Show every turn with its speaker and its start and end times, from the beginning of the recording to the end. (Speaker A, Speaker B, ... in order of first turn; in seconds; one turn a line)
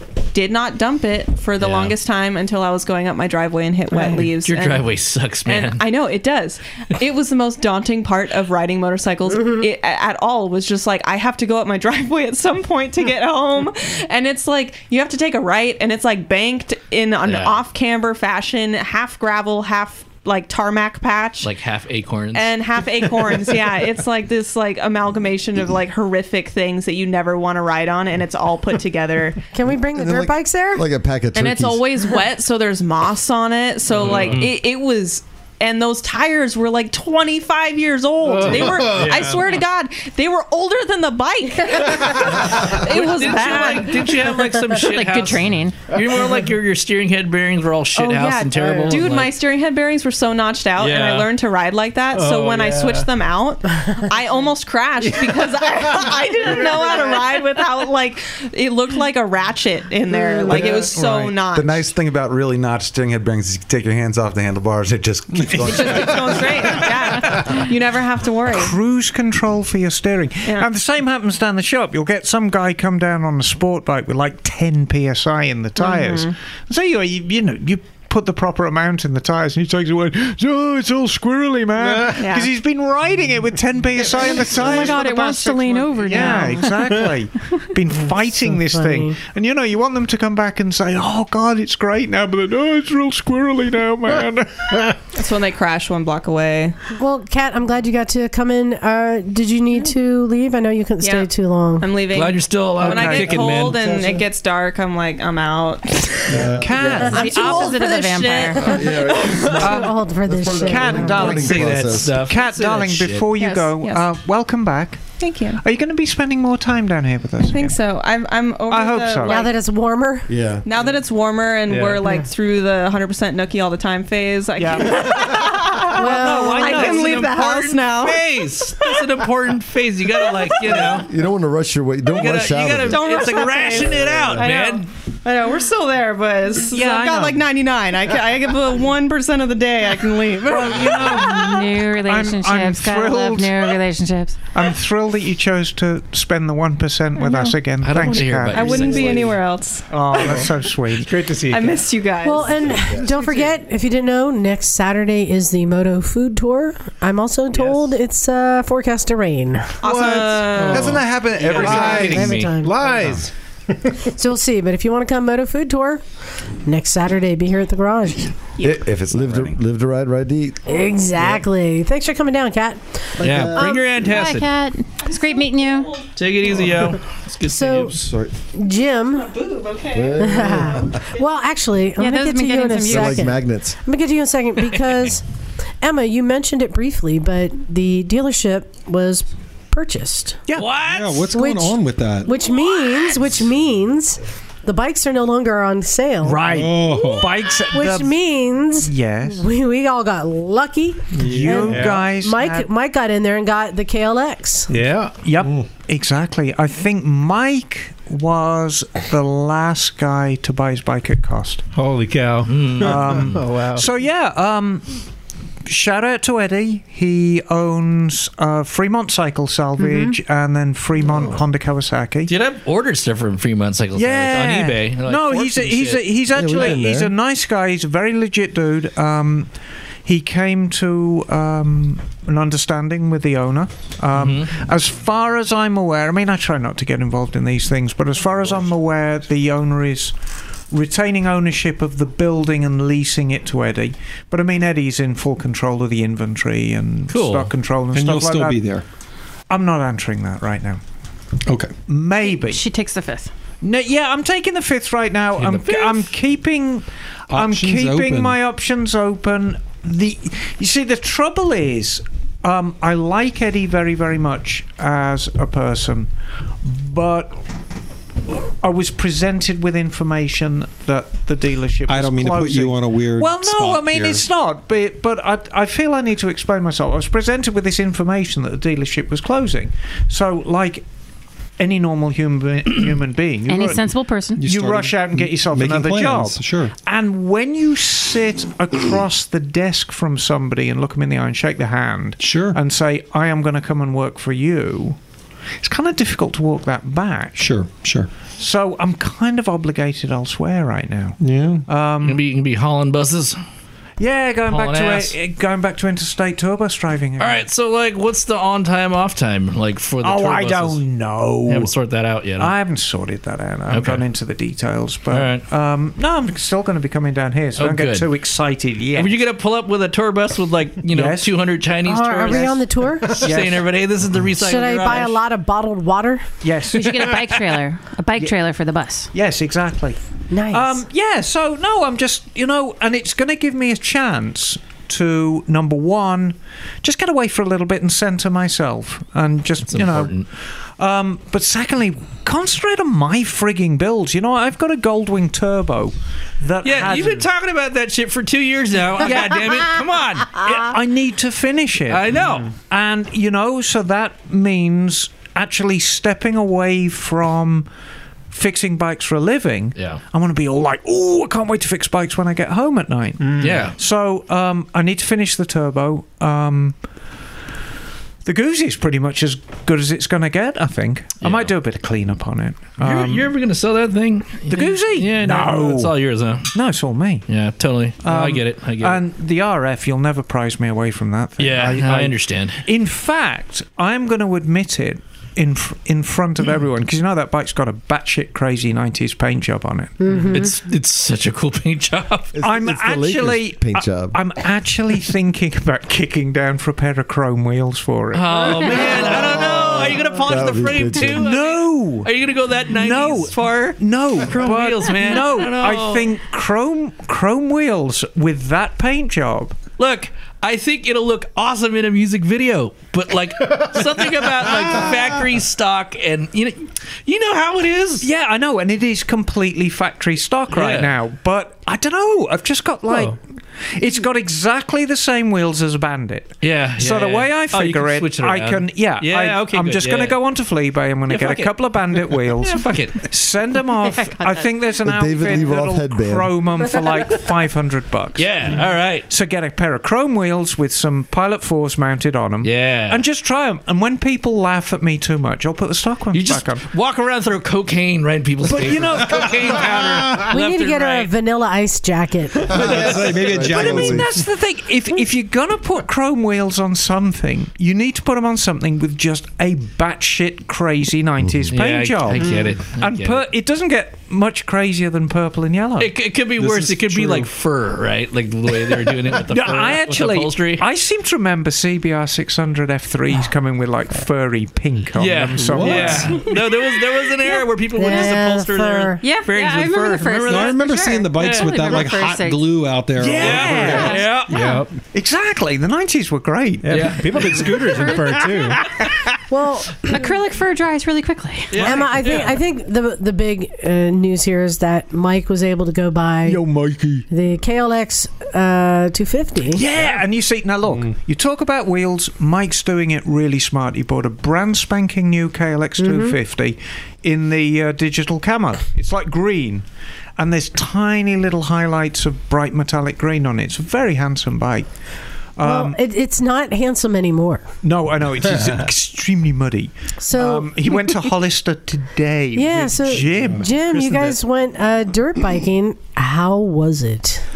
Speaker A: 0.3-4.9
Speaker B: 1.6-1.9
Speaker B: 4.0-5.8
Speaker A: 5.5-21.5
Speaker C: 9.4-9.7
Speaker B: 17.2-17.6
Speaker B: 21.4-22.5
Speaker A: 22.3-29.4
Speaker C: 29.5-30.9
Speaker D: 29.9-31.8
Speaker A: 31.3-44.2
Speaker B: 33.9-34.5
Speaker E: 38.2-39.2
Speaker B: 38.4-39.5
Speaker B: 42.1-49.4
Speaker F: 44.7-45.9
Speaker A: 48.0-61.8
Speaker B: 50.8-51.3
Speaker E: 52.1-53.1
Speaker E: 55.1-56.9
Speaker G: 60.5-61.0
Speaker H: 60.5-61.4
Speaker G: 61.5-67.3
Speaker A: 65.6-68.8
Speaker H: 68.5-95.0
Speaker A: 75.8-76.3
Speaker E: 81.8-82.1
Speaker A: 82.2-82.5
Speaker F: 84.2-86.9
Speaker C: 88.5-89.2
Speaker A: 95.1-96.8
Speaker C: 97.0-101.9
Speaker A: 101.0-106.5
Speaker B: 102.1-104.0
Speaker H: 102.8-103.5
Speaker D: 103.7-104.2
Speaker D: 106.3-107.2
Speaker H: 106.5-107.3
Speaker F: 107.1-108.8
Speaker A: 107.1-109.7
Speaker D: 108.6-112.2
Speaker C: 109.4-111.2
Speaker H: 109.6-109.9
Speaker H: 110.6-117.8
Speaker B: 111.1-113.3
Speaker F: 113.4-113.8
Speaker A: 115.2-115.6
Speaker A: 117.5-119.5
Speaker H: 118.7-119.4
Speaker C: 119.3-120.3
Speaker D: 120.3-120.7
Speaker A: 120.7-128.3
Speaker E: 121.7-122.0
Speaker H: 124.6-125.2
Speaker C: 126.0-126.9
Speaker B: 126.1-131.1
Speaker H: 126.2-127.2
Speaker A: 130.2-130.9
Speaker D: 130.8-133.2
Speaker B: 132.1-134.9
Speaker A: 132.8-141.6
Speaker D: 134.0-134.4
Speaker H: 136.7-137.4
Speaker H: 140.4-143.8
Speaker F: 141.1-144.4
Speaker H: 144.5-149.1
Speaker B: 147.8-149.4
Speaker A: 148.5-150.5
Speaker E: 148.9-149.2
Speaker H: 149.9-151.3
Speaker E: 150.2-151.8
Speaker A: 151.5-152.7
Speaker C: 152.2-159.8
Speaker E: 157.5-157.8
Speaker A: 159.8-161.1
Speaker E: 159.8-161.0
Speaker G: 160.1-162.4
Speaker B: 160.9-162.6
Speaker C: 161.5-162.8
Speaker E: 161.6-163.3
Speaker C: 164.1-166.0
Speaker C: 166.7-168.3
Speaker G: 168.6-169.6
Speaker D: 169.1-171.4
Speaker C: 170.7-173.7
Speaker D: 173.2-173.8
Speaker B: 173.2-174.5
Speaker F: 174.0-176.1
Speaker A: 175.0-176.1
Speaker B: 176.1-178.1
Speaker C: 177.5-177.9
Speaker D: 178.0-178.3
Speaker C: 178.5-179.3
Speaker A: 179.2-180.3
Speaker D: 179.9-181.0
Speaker C: 180.2-185.2
Speaker F: 182.0-183.3
Speaker D: 182.9-183.8
Speaker C: 185.8-190.4
Speaker B: 190.5-191.3
Speaker I: 190.8-192.3
Speaker C: 191.3-204.7
Speaker H: 196.2-199.4
Speaker I: 196.4-197.3
Speaker E: 201.2-202.0
Speaker H: 201.2-202.7
Speaker E: 204.7-205.5
Speaker H: 205.2-211.6
Speaker E: 211.7-213.9
Speaker B: 212.4-213.2
Speaker H: 212.8-215.0
Speaker H: 215.7-222.3
Speaker B: 222.3-226.1
Speaker H: 223.9-229.5
Speaker D: 226.3-227.1
Speaker H: 230.1-240.1
Speaker B: 234.1-234.6
Speaker H: 240.7-248.6
Speaker B: 247.1-247.5
Speaker I: 247.9-248.8
Speaker H: 249.5-250.8
Speaker I: 251.5-251.7
Speaker H: 251.9-252.6
Speaker F: 252.2-253.3
Speaker H: 253.6-266.1
Speaker B: 255.4-256.1
Speaker I: 257.3-258.4
Speaker H: 266.6-267.4
Speaker H: 268.3-280.8
Speaker I: 271.9-274.2
Speaker H: 281.6-295.0
Speaker F: 283.5-284.4
Speaker I: 284.4-286.7
Speaker I: 292.2-292.6
Speaker H: 295.6-297.5
Speaker I: 297.4-298.1
Speaker H: 298.4-302.2
Speaker I: 301.2-301.6
Speaker B: 302.0-303.4
Speaker H: 304.0-307.4
Speaker B: 304.4-305.2
Speaker B: 307.2-310.8
Speaker H: 310.0-311.7
Speaker B: 311.5-312.5
Speaker H: 312.4-319.2
Speaker B: 313.7-314.1
Speaker B: 315.1-315.4
Speaker B: 317.6-318.1
Speaker B: 318.9-325.2
Speaker H: 320.9-321.3
Speaker C: 321.9-323.1
Speaker H: 322.3-322.5
Speaker H: 323.2-323.7
Speaker C: 324.4-326.2
Speaker H: 326.4-327.4
Speaker F: 326.7-329.1
Speaker H: 329.1-330.0
Speaker C: 330.3-330.8
Speaker H: 330.5-340.2
Speaker B: 339.7-340.3
Speaker H: 340.8-347.3
Speaker B: 346.6-350.4
Speaker H: 349.1-349.4
Speaker H: 350.4-357.7
Speaker B: 351.9-352.5
Speaker H: 358.3-366.8
Speaker B: 359.8-360.0
Speaker E: 363.3-363.6
Speaker B: 363.4-363.8
Speaker H: 368.2-373.3
Speaker B: 371.2-371.5
Speaker B: 372.8-376.5
Speaker H: 374.5-375.9
Speaker H: 376.5-377.3
Speaker B: 377.3-379.0
Speaker H: 378.0-390.2
Speaker B: 381.4-382.6
Speaker C: 390.0-390.5
Speaker B: 390.1-392.3
Speaker D: 392.3-394.2
Speaker H: 392.4-399.3
Speaker B: 398.1-406.1
Speaker D: 399.2-401.2
Speaker H: 401.0-402.1
Speaker H: 402.7-409.6
Speaker B: 409.8-418.1
Speaker H: 418.0-423.2
Speaker B: 420.5-420.9
Speaker B: 422.9-423.1
Speaker H: 423.8-446.7
Speaker B: 426.4-430.2
Speaker B: 431.1-433.1
Speaker F: 433.9-434.5
Speaker D: 434.8-436.3
Speaker B: 438.2-439.1
Speaker B: 442.4-443.0
Speaker B: 446.1-451.1
Speaker H: 448.5-450.3
Speaker C: 450.3-452.7
Speaker I: 452.5-454.2
Speaker D: 452.6-454.1
Speaker H: 452.8-465.9
Speaker D: 461.2-461.5
Speaker B: 461.5-463.2
Speaker E: 462.2-462.5
Speaker B: 465.8-470.6
Speaker I: 466.4-467.3
Speaker H: 469.3-476.3
Speaker B: 474.9-480.6
Speaker I: 475.5-476.2
Speaker C: 477.7-479.0
Speaker F: 479.0-482.6
Speaker I: 480.3-483.9
Speaker B: 481.2-481.9
Speaker H: 483.0-484.2
Speaker B: 483.1-484.4
Speaker F: 483.7-484.6
Speaker E: 484.3-484.7
Speaker H: 484.9-486.9
Speaker E: 486.6-488.6
Speaker B: 486.6-487.5
Speaker F: 487.7-488.2
Speaker C: 489.3-490.1
Speaker F: 489.9-491.7
Speaker B: 491.5-492.4
Speaker C: 491.5-496.4
Speaker H: 496.2-497.1
Speaker C: 497.1-499.6
Speaker H: 499.5-509.6
Speaker B: 499.7-500.0
Speaker C: 505.8-506.2
Speaker H: 510.2-514.7
Speaker H: 515.4-515.8
Speaker C: 515.4-517.5
Speaker H: 517.6-523.8
Speaker C: 520.0-520.5
Speaker C: 522.4-527.2